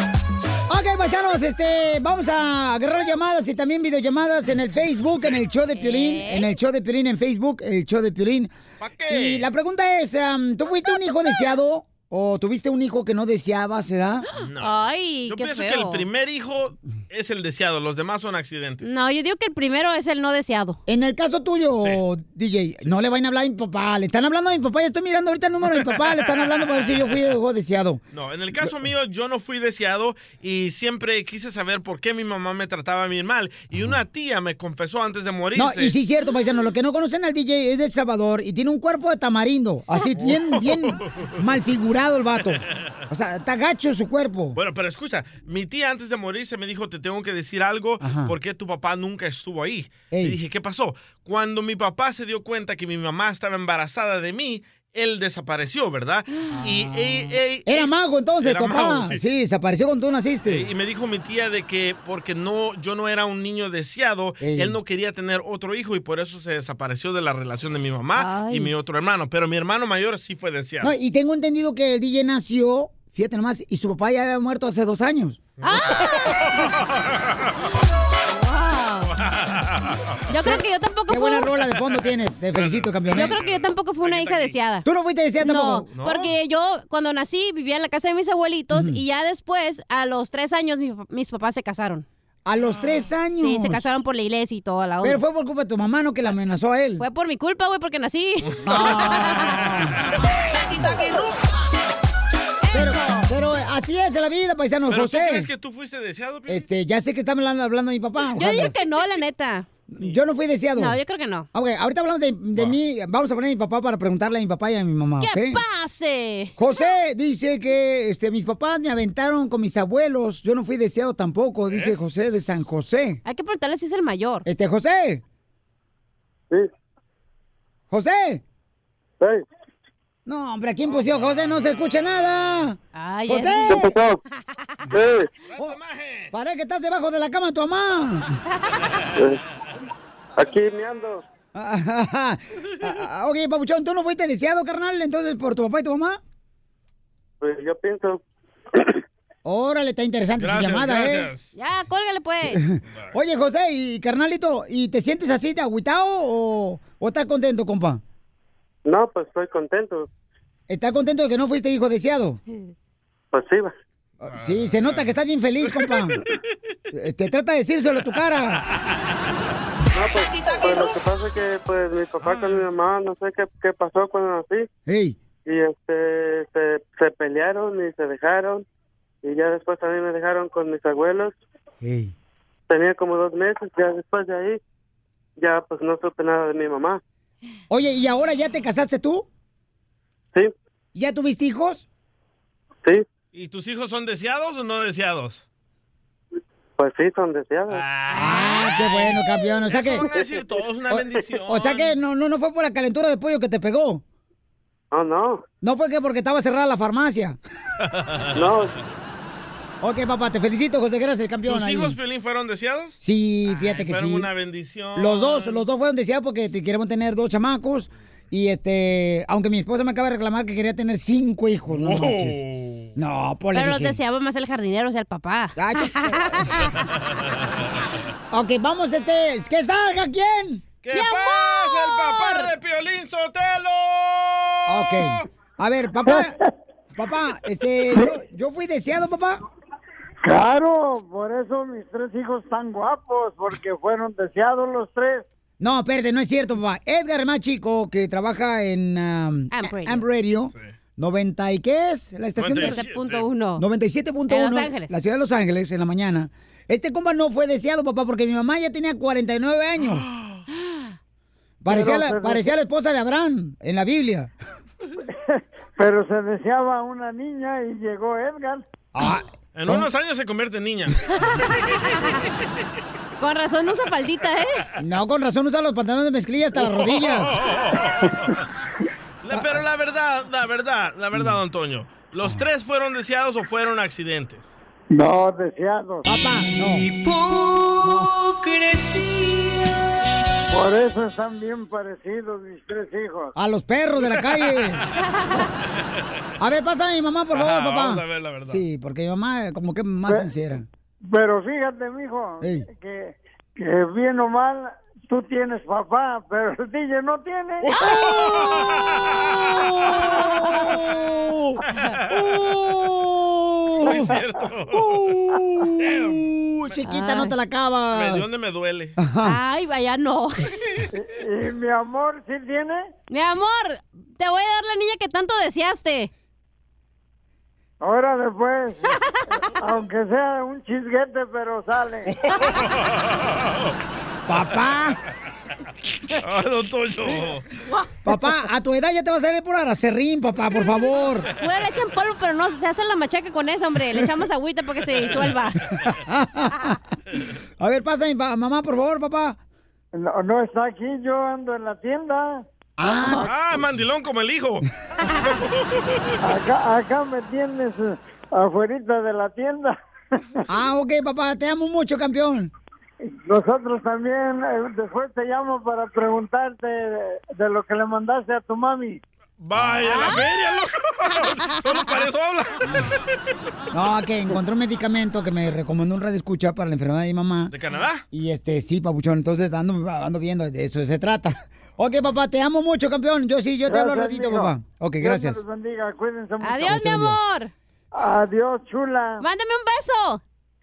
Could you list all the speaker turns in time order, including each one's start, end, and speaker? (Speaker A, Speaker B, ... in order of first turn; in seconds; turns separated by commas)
Speaker A: 0.7-8.5, Speaker B: 5.8-6.5, Speaker C: 8.8-9.5, Speaker A: 9.1-14.3, Speaker C: 14.4-18.9, Speaker B: 14.6-16.0, Speaker B: 18.8-20.8, Speaker A: 20.9-28.0, Speaker C: 25.6-27.2, Speaker C: 28.1-36.0, Speaker A: 35.5-44.6, Speaker C: 40.1-41.3, Speaker C: 44.5-59.2, Speaker A: 48.0-48.3, Speaker A: 50.1-50.4, Speaker A: 56.5-60.7, Speaker C: 60.5-70.9, Speaker A: 64.4-64.8, Speaker B: 68.2-68.7, Speaker A: 70.8-75.5, Speaker C: 75.6-77.5, Speaker B: 75.6-76.3, Speaker B: 78.2-79.1, Speaker C: 79.1-80.2, Speaker B: 80.3-81.5, Speaker A: 80.5-83.4, Speaker C: 81.7-84.6, Speaker B: 83.1-84.8, Speaker A: 84.8-85.8, Speaker B: 85.4-92.0, Speaker C: 85.9-86.3, Speaker A: 88.7-89.0, Speaker A: 92.4-93.9, Speaker C: 92.6-93.1, Speaker B: 93.3-95.2, Speaker A: 95.0-97.0, Speaker B: 97.0-98.6, Speaker C: 98.5-99.9, Speaker A: 98.6-100.0, Speaker A: 100.7-101.1, Speaker A: 102.7-105.5, Speaker B: 102.7-103.2, Speaker C: 104.9-106.7, Speaker A: 106.5-108.7, Speaker B: 108.3-109.7, Speaker A: 109.9-111.0, Speaker B: 110.8-111.5, Speaker A: 111.5-115.6, Speaker B: 115.2-116.5, Speaker A: 116.5-123.2, Speaker C: 121.7-122.1, Speaker B: 123.2-124.5, Speaker A: 124.4-125.2, Speaker A: 127.9-128.4, Speaker A: 130.2-133.9, Speaker C: 131.0-131.7, Speaker B: 132.9-133.9, Speaker D: 133.7-134.2, Speaker D: 134.9-135.3, Speaker C: 135.5-136.3, Speaker A: 136.3-138.4, Speaker D: 139.2-139.4, Speaker D: 140.3-141.2, Speaker A: 141.5-146.2, Speaker D: 147.4-148.2, Speaker A: 149.4-151.3, Speaker C: 150.4-151.5, Speaker B: 151.5-152.6, Speaker A: 152.5-158.0, Speaker C: 152.9-153.2, Speaker D: 158.8-160.1, Speaker A: 160.7-162.4, Speaker D: 163.3-163.7, Speaker A: 164.2-166.2, Speaker C: 164.3-166.4, Speaker A: 166.9-168.6, Speaker D: 169.9-174.7, Speaker C: 172.2-172.7, Speaker A: 174.8-175.2, Speaker D: 175.4-178.6, Speaker D: 179.2-181.3, Speaker A: 181.8-182.1, Speaker D: 182.7-184.6, Speaker D: 185.4-187.0, Speaker A: 187.7-189.2, Speaker A: 190.9-191.8, Speaker C: 193.3-195.4, Speaker D: 196.8-197.8, Speaker C: 197.7-201.9, Speaker A: 198.1-200.1, Speaker B: 198.2-198.7, Speaker D: 200.1-200.4, Speaker A: 201.4-204.0, Speaker D: 204.9-205.4, Speaker A: 205.6-207.4, Speaker C: 207.9-208.5, Speaker D: 208.3-208.7, Speaker A: 209.8-212.0, Speaker C: 211.4-215.6, Speaker A: 213.0-214.3, Speaker A: 214.9-222.4, Speaker C: 221.7-222.9, Speaker A: 222.9-224.0, Speaker B: 223.5-226.6, Speaker A: 225.6-226.7, Speaker C: 227.0-227.7, Speaker A: 228.3-230.7, Speaker C: 230.8-235.3, Speaker B: 230.9-232.5, Speaker A: 234.7-236.4, Speaker E: 236.1-236.4, Speaker A: 236.9-239.4, Speaker E: 240.2-245.3, Speaker A: 245.6-252.8, Speaker B: 249.5-250.0, Speaker C: 252.3-253.3, Speaker B: 252.5-253.6, Speaker A: 253.6-260.1, Speaker B: 254.3-255.0, Speaker C: 259.8-260.4, Speaker B: 260.6-260.9, Speaker A: 261.6-264.3, Speaker E: 261.7-262.5, Speaker E: 265.1-268.6, Speaker A: 268.9-269.9, Speaker C: 269.5-271.4, Speaker B: 273.2-274.6, Speaker A: 274.8-277.4, Speaker C: 276.6-278.3, Speaker C: 279.2-284.6, Speaker A: 279.3-279.6, Speaker E: 284.9-286.1, Speaker A: 286.0-286.9, Speaker A: 287.8-288.1, Speaker E: 290.5-293.3, Speaker A: 293.3-294.8, Speaker C: 294.0-294.8, Speaker A: 296.4-300.6, Speaker C: 297.3-298.6, Speaker E: 301.1-307.8, Speaker A: 302.4-302.6, Speaker C: 307.6-309.6, Speaker A: 307.8-308.4, Speaker A: 310.1-314.2, Speaker C: 311.9-312.8, Speaker C: 313.8-315.1, Speaker A: 314.7-318.3, Speaker C: 315.8-316.8, Speaker B: 316.9-317.3, Speaker C: 317.9-319.0, Speaker A: 319.0-319.4, Speaker B: 319.2-320.5, Speaker E: 320.9-322.9, Speaker B: 323.1-326.1, Speaker E: 327.8-332.1, Speaker C: 332.1-333.7, Speaker A: 334.3-335.0, Speaker C: 336.2-337.5, Speaker A: 338.0-341.3, Speaker B: 341.4-345.7, Speaker C: 345.0-345.4, Speaker A: 345.8-346.8, Speaker A: 347.6-349.4, Speaker E: 349.9-352.4, Speaker A: 352.8-353.3, Speaker C: 353.2-354.6, Speaker C: 355.3-356.1, Speaker E: 356.2-359.8, Speaker A: 360.5-362.5, Speaker E: 363.2-369.0, Speaker C: 369.4-373.0, Speaker A: 369.5-370.1, Speaker B: 369.9-370.2, Speaker A: 373.7-377.5, Speaker C: 377.5-378.0, Speaker A: 378.1-385.4, Speaker E: 383.7-386.8, Speaker B: 386.4-387.5, Speaker A: 386.6-387.2, Speaker E: 387.9-389.2, Speaker B: 389.2-390.2